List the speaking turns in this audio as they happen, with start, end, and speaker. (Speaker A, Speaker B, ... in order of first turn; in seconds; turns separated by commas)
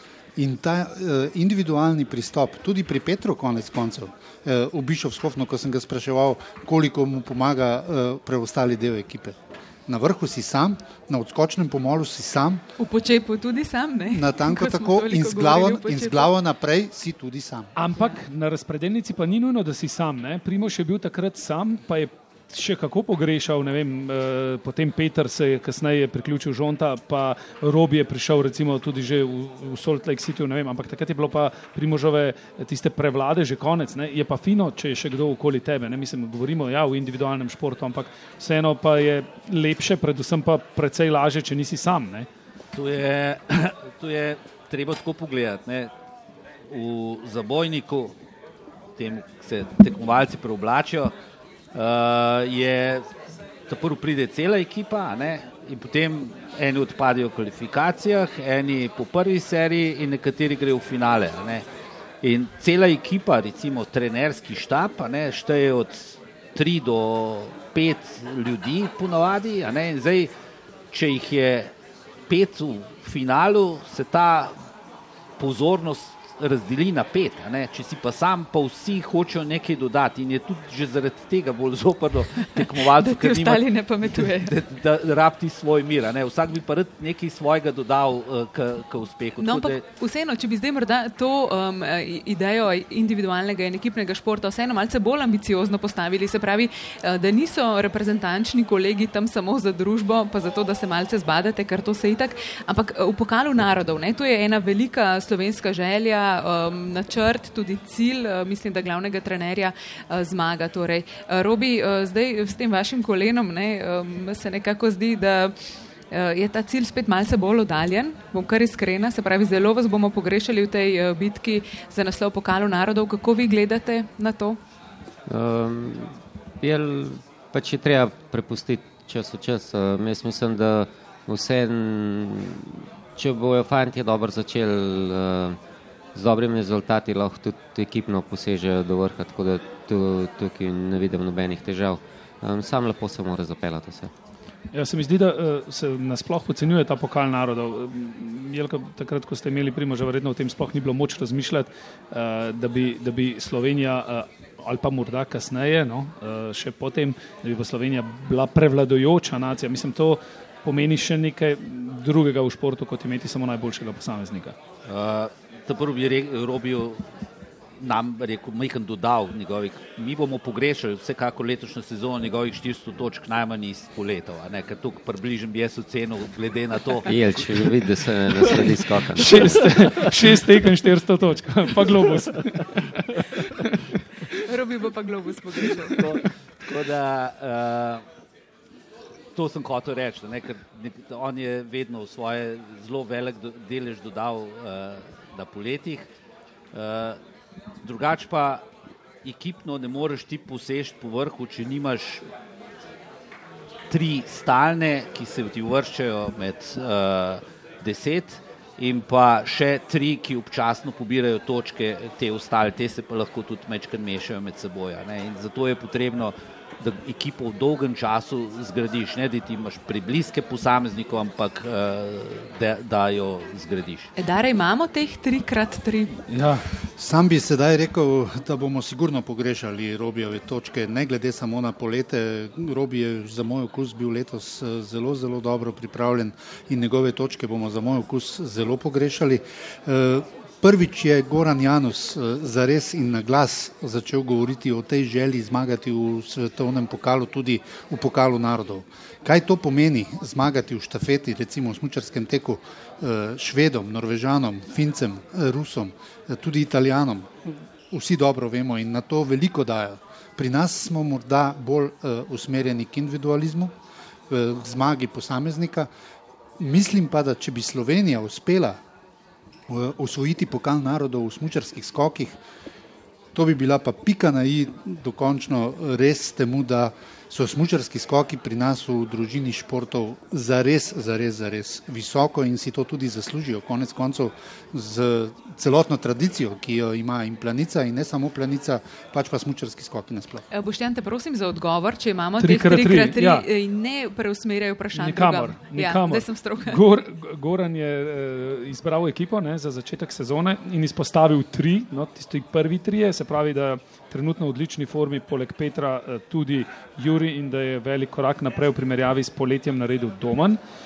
Speaker A: 0.4-12.6, Speaker B: 12.8-16.3, Speaker A: 14.1-17.7, Speaker C: 17.8-42.3, Speaker D: 42.7-45.9, Speaker D: 46.7-48.1, Speaker D: 49.0-51.1, Speaker D: 51.7-53.1, Speaker D: 53.7-61.6, Speaker D: 62.2-70.3, Speaker D: 70.9-71.7, Speaker D: 72.3-74.5, Speaker D: 75.4-89.8, Speaker B: 82.7-84.5, Speaker B: 89.4-115.5, Speaker B: 116.1-124.6, Speaker E: 125.3-135.6, Speaker E: 136.1-144.1, Speaker C: 144.7-164.6, Speaker D: 164.9-167.0, Speaker D: 167.8-177.1, Speaker E: 177.1-179.5, Speaker C: 179.1-184.2, Speaker B: 184.3-186.1, Speaker D: 185.9-188.0, Speaker D: 189.4-196.1, Speaker D: 196.7-197.2, Speaker D: 197.8-198.6, Speaker D: 199.2-202.2, Speaker D: 203.9-224.1, Speaker B: 224.2-226.2, Speaker C: 226.3-226.6, Speaker A: 227.0-263.7, Speaker A: 264.3-265.9, Speaker A: 266.6-268.8, Speaker A: 269.7-272.4, Speaker A: 273.3-290.4, Speaker B: 290.5-296.8, Speaker C: 292.4-293.4, Speaker C: 294.9-310.6